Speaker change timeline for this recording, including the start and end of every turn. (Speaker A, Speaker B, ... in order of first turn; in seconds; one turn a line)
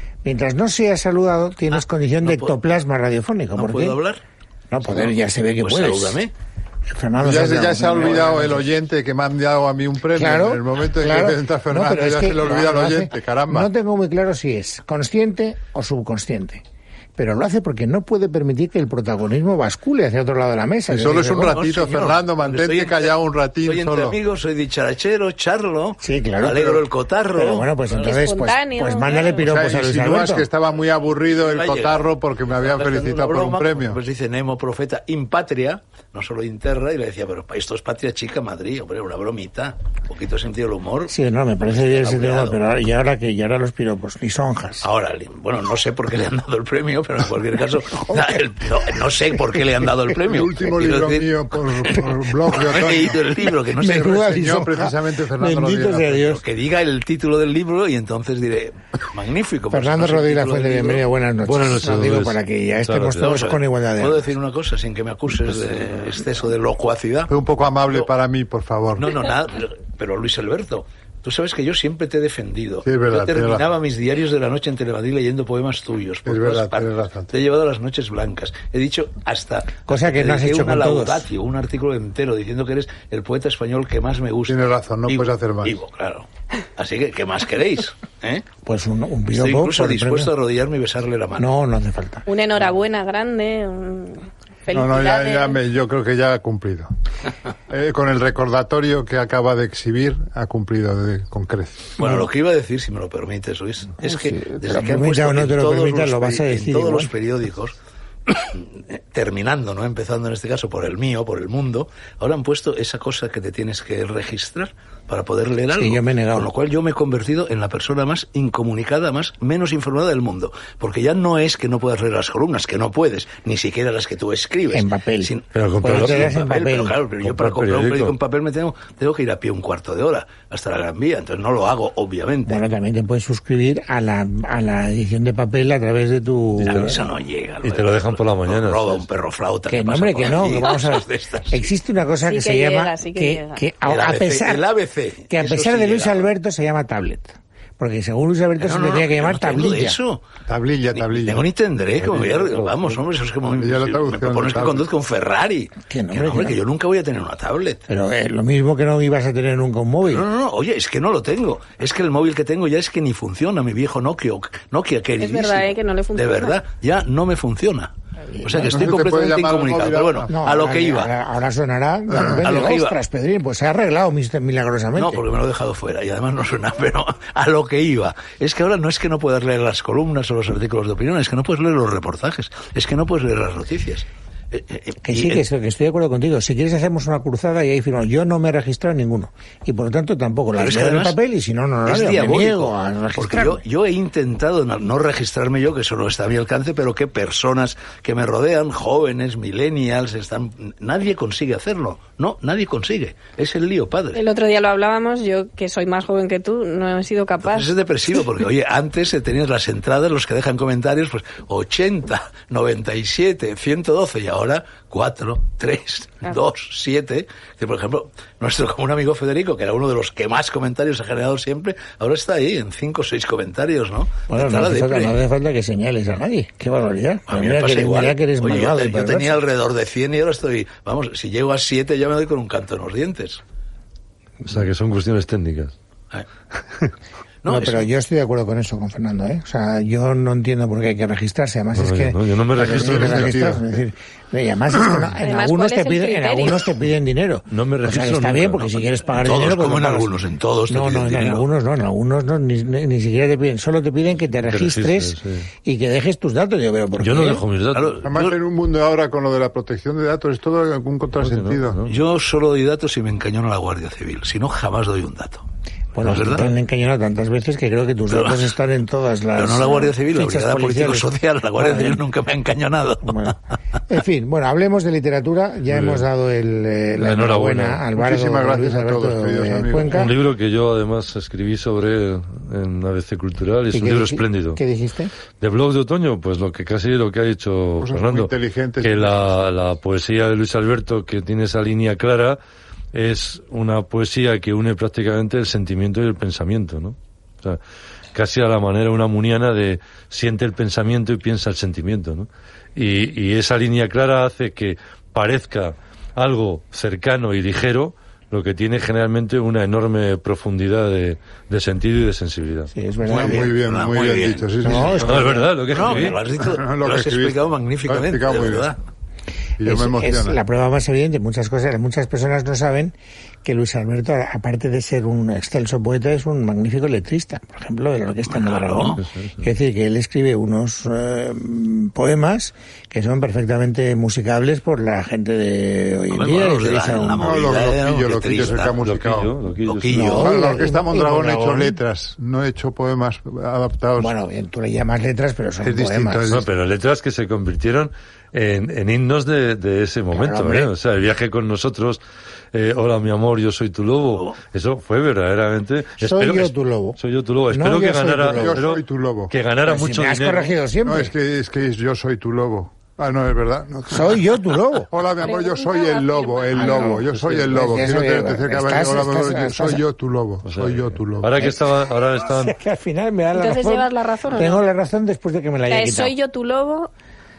Speaker A: 0.2-4.0
Speaker B: 1.8-2.6
Speaker B: 3.6-4.2
Speaker A: 4.7-6.2
Speaker B: 4.9-6.3
Speaker A: 6.9-8.7
Speaker C: 7.2-13.7
Speaker A: 10.2-16.6
Speaker A: 17.2-21.6
Speaker C: 20.9-24.2
Speaker B: 21.3-28.0
Speaker A: 26.0-26.8
Speaker A: 27.3-30.5
Speaker D: 27.9-29.5
Speaker C: 29.4-34.0
Speaker B: 31.4-42.6
Speaker A: 41.1-44.9
Speaker B: 44.8-51.6
Speaker C: 50.3-53.2
Speaker B: 52.5-54.3
Speaker A: 53.8-56.4
Speaker C: 53.8-56.4
Speaker B: 56.4-61.0
Speaker A: 59.7-64.3
Speaker E: 61.4-63.3
Speaker B: 63.2-67.3
Speaker C: 67.3-69.1
Speaker B: 69.0-88.5
Speaker C: 72.8-73.6
Speaker C: 76.2-77.3
Speaker A: 79.9-81.2
Speaker C: 84.5-85.8
Speaker A: 88.7-90.3
Speaker B: 89.3-91.5
Speaker A: 91.4-92.3
Speaker D: 92.3-95.6
Speaker C: 94.7-96.9
Speaker C: 97.7-102.0
Speaker B: 102.0-107.8
Speaker A: 104.0-107.1
Speaker B: 108.3-132.6
Speaker A: 115.8-116.5
Speaker A: 124.7-127.0
Speaker E: 125.5-126.3
Speaker E: 127.2-128.2
Speaker A: 132.5-137.0
Speaker E: 136.6-136.9
Speaker B: 136.7-141.7
Speaker E: 137.6-139.0
Speaker A: 139.7-144.6
Speaker D: 142.2-143.7
Speaker B: 143.9-146.3
Speaker A: 145.3-150.0
Speaker B: 148.6-150.2
Speaker C: 150.5-151.5
Speaker B: 150.9-157.8
Speaker E: 152.0-152.8
Speaker C: 153.5-154.9
Speaker A: 155.9-156.6
Speaker A: 157.9-160.2
Speaker B: 160.1-167.9
Speaker D: 165.2-166.6
Speaker A: 168.3-168.9
Speaker B: 168.4-171.1
Speaker C: 168.7-170.3
Speaker A: 170.3-175.2
Speaker B: 172.2-173.0
Speaker B: 175.0-185.4
Speaker A: 185.0-193.6
Speaker B: 190.6-191.2
Speaker B: 191.9-204.2
Speaker D: 204.1-207.7
Speaker B: 207.4-225.2
Speaker A: 224.3-229.4
Speaker B: 227.3-233.4
Speaker E: 234.4-235.7
Speaker B: 237.4-237.9
Speaker A: 237.5-250.1
Speaker E: 241.8-243.5
Speaker C: 242.7-243.6
Speaker D: 245.2-246.7
Speaker E: 247.5-248.9
Speaker B: 249.2-251.5
Speaker A: 250.7-257.4
Speaker E: 254.5-255.5
Speaker E: 257.0-258.0
Speaker B: 257.7-258.4
Speaker C: 258.0-261.8
Speaker E: 261.2-262.0
Speaker B: 261.9-265.4
Speaker A: 265.9-272.0
Speaker B: 266.0-266.5
Speaker B: 268.1-268.5
Speaker B: 269.4-273.3
Speaker A: 273.0-280.1
Speaker E: 275.7-276.0
Speaker E: 277.0-277.8
Speaker C: 277.9-280.1
Speaker E: 279.9-284.6
Speaker A: 283.7-285.1
Speaker E: 285.4-288.3
Speaker C: 287.8-289.5
Speaker E: 288.8-292.4
Speaker E: 292.9-297.6
Speaker E: 298.1-312.7
Speaker A: 312.7-313.6
Speaker C: 313.1-315.4
Speaker B: 313.1-318.8
Speaker A: 314.6-315.5
Speaker E: 315.0-316.2
Speaker C: 316.4-318.7
Speaker C: 319.6-320.4
Speaker A: 319.6-337.4
Speaker B: 328.3-329.0
Speaker E: 329.0-329.4
Speaker B: 336.1-338.8
Speaker C: 337.2-339.3
Speaker E: 338.8-340.2
Speaker B: 339.6-340.4
Speaker A: 339.9-341.8
Speaker C: 340.1-344.1
Speaker A: 344.0-346.3
Speaker C: 345.6-346.5
Speaker E: 346.3-352.0
Speaker A: 350.1-350.7
Speaker E: 352.5-360.5
Speaker A: 356.0-358.6
Speaker C: 358.3-359.3
Speaker A: 359.7-361.1
Speaker C: 360.8-364.2
Speaker A: 363.9-364.9
Speaker C: 364.9-371.5
Speaker D: 365.2-366.9
Speaker A: 366.5-369.8
Speaker E: 370.4-372.6
Speaker A: 372.2-376.1
Speaker D: 373.3-374.6
Speaker D: 375.7-376.9